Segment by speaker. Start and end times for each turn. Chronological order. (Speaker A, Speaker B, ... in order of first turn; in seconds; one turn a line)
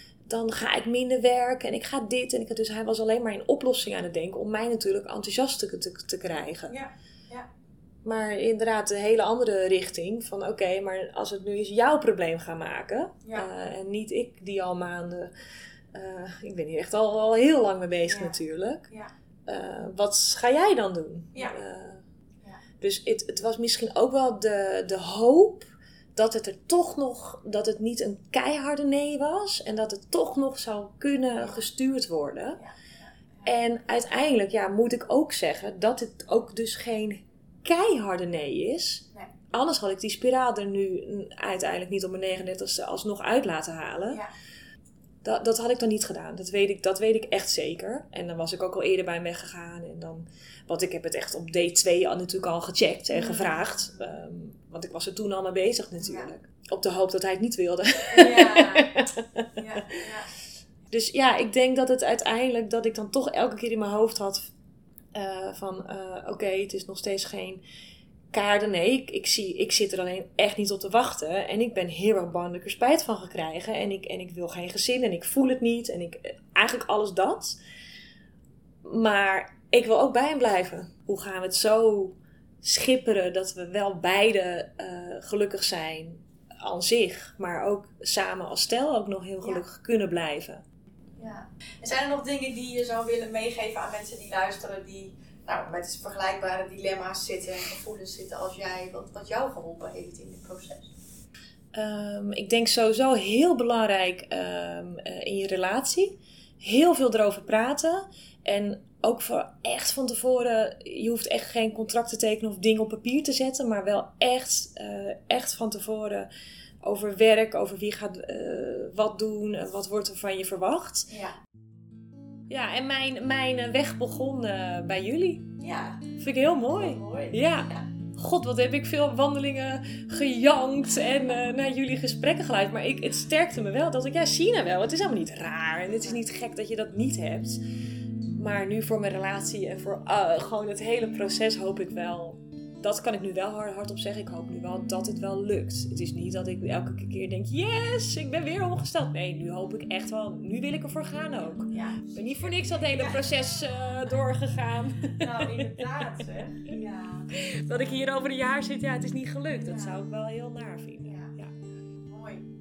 Speaker A: 0.3-6.7
Speaker B: 6.7-7.5
Speaker A: 8.0-15.3
Speaker A: 15.9-18.9
Speaker B: 18.1-18.4
Speaker A: 19.4-22.0
Speaker A: 22.8-32.6
Speaker B: 32.6-33.5
Speaker A: 33.4-44.2
Speaker A: 45.2-59.5
Speaker B: 53.1-54.1
Speaker B: 56.0-56.3
Speaker B: 58.1-59.0
Speaker B: 59.5-60.3
Speaker A: 60.9-64.5
Speaker A: 65.1-67.6
Speaker A: 68.3-77.6
Speaker A: 78.8-90.6
Speaker B: 91.2-100.9
Speaker A: 101.7-116.3
Speaker A: 116.8-121.1
Speaker B: 121.1-121.3
Speaker A: 122.5-125.5
Speaker B: 125.6-126.0
Speaker A: 126.1-137.6
Speaker B: 126.8-127.8
Speaker A: 138.3-156.1
Speaker B: 151.6-153.3
Speaker B: 155.2-157.8
Speaker A: 157.3-161.5
Speaker B: 159.6-159.9
Speaker B: 161.0-161.3
Speaker B: 162.0-162.5